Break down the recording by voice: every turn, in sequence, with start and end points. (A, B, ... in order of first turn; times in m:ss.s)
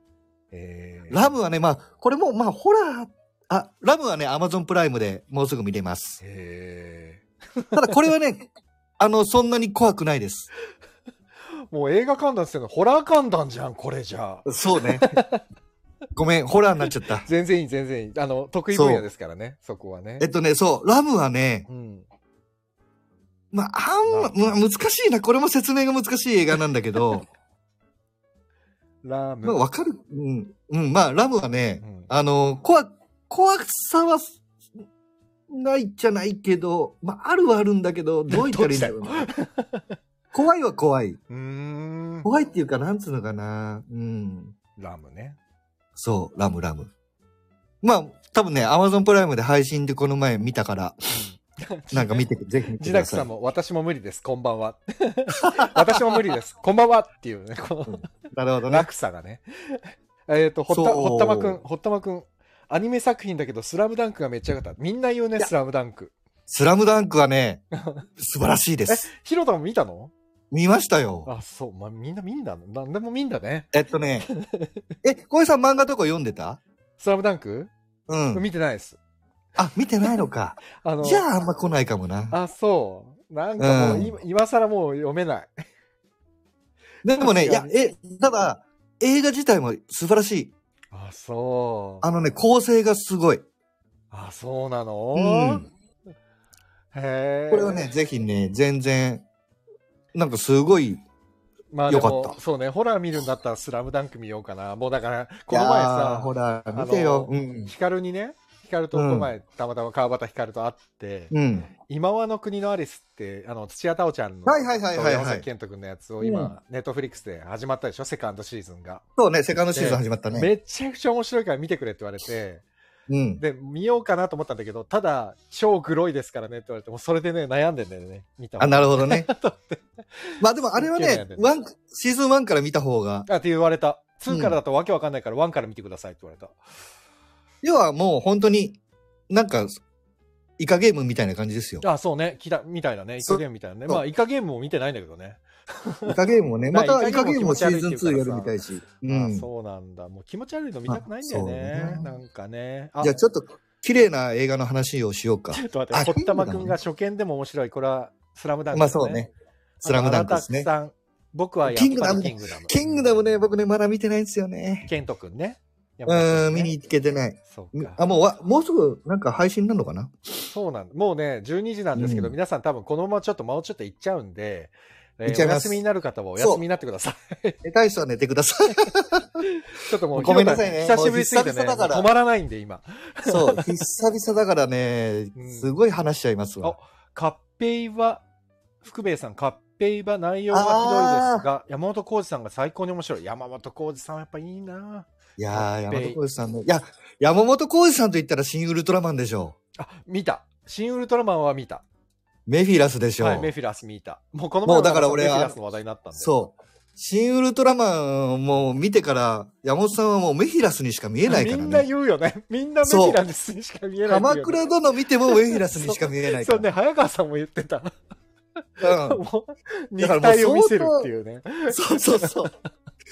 0:00.5-0:01.3 A
0:01.1-0:06.2 B
0:06.2-0:08.0 A
0:07.7-0:08.5 B
0:09.0-0:10.5 B
0:11.7-0:15.4 A
0:14.4-0:15.1 B
0:16.1-0:17.3 B
0:17.2-0:20.3 A
0:18.7-0:19.0 B
0:20.2-0:21.7 B
0:21.7-0:22.0 A
0:23.5-0:27.2 B
0:24.0-0:24.5 A
0:29.0-0:29.6 A
0:29.4-0:34.4 B
0:31.8-0:32.1 A
0:35.5-0:39.3 B
0:38.3-0:39.9 A
0:40.3-0:41.2 B
0:41.3-0:42.3 A
0:42.2-0:44.5 B
0:44.8-0:45.4 A
0:46.0-0:46.9 B
0:47.8-0:51.0 B
0:51.1-0:58.1 A
0:51.9-0:53.3 B
0:55.5-0:56.0 B
0:57.9-0:58.9 B
0:58.7-1:06.1 A
1:00.7-1:01.6 B
1:06.5-1:07.6 B
1:07.8-1:08.0 A
1:08.2-1:09.1 B
1:08.9-1:10.1 A
1:10.5-1:11.3 B
1:11.2-1:13.7 A
1:13.7-1:14.3 B
1:14.2-1:14.8 A
1:15.0-1:16.6 B
1:17.0-1:17.7 A
1:18.1-1:18.4 B
1:18.3-1:19.0 A
1:19.6-1:22.4 B
1:20.7-1:21.2 A
1:22.3-1:25.5 A
1:23.6-1:24.2 B
1:27.0-1:30.5 B
1:27.2-1:27.7 A
1:30.9-1:32.1 A
1:32.0-1:33.4 B
1:34.1-1:35.7 A
1:35.1-1:35.7 B
1:36.9-1:37.8 A
1:37.5-1:39.2 B
1:40.1-1:41.0 B
1:41.7-1:59.0 A
1:41.9-1:42.4 B
1:45.5-1:47.7 B
1:48.9-1:49.3 B
1:51.3-1:51.7 B
1:54.4-1:55.4 B
1:56.2-1:56.5 B
1:59.2-2:00.5 B
1:59.7-2:02.6 A
2:03.1-2:03.4 B
2:03.4-2:11.5 A
2:08.6-2:09.3 B
2:10.4-2:13.3 B
2:13.3-2:16.6 A
2:14.3-2:14.6 B
2:17.6-2:19.7 B
2:20.6-2:21.8 B
2:21.8-2:26.2 A
2:23.2-2:24.0 B
2:26.0-2:29.5 B
2:26.7-2:28.5 A
2:29.1-2:33.2 A
2:30.9-2:32.1 B
2:33.0-2:36.8 B
2:35.5-2:39.2 A
2:38.7-2:39.3 B
2:39.8-2:43.1 A
2:39.8-2:40.7 B
2:41.6-2:44.9 B
2:44.8-2:46.7 A
2:46.1-2:50.1 B
2:47.5-2:48.0 A
2:50.5-2:57.6 A
2:51.9-2:52.3 B
2:55.2-2:55.8 B
2:57.6-2:59.4 B
2:59.4-3:03.8 A
3:00.1-3:02.1 B
3:03.2-3:06.8 B
3:05.4-3:05.7 A
3:06.6-3:08.2 A
3:08.8-3:16.2 A
3:10.5-3:11.4 B
3:15.4-3:19.6 B
3:19.8-3:21.8 A
3:22.5-3:23.5 B
3:23.2-3:26.4 A
3:24.6-3:25.6 B
3:26.2-3:31.9 B
3:31.3-3:34.6 A
3:32.8-3:33.2 B
3:34.1-3:36.7 B
3:35.3-3:37.9 A
3:38.8-3:39.2 B
3:38.8-3:42.5 A
3:40.0-3:41.1 B
3:41.7-3:42.5 B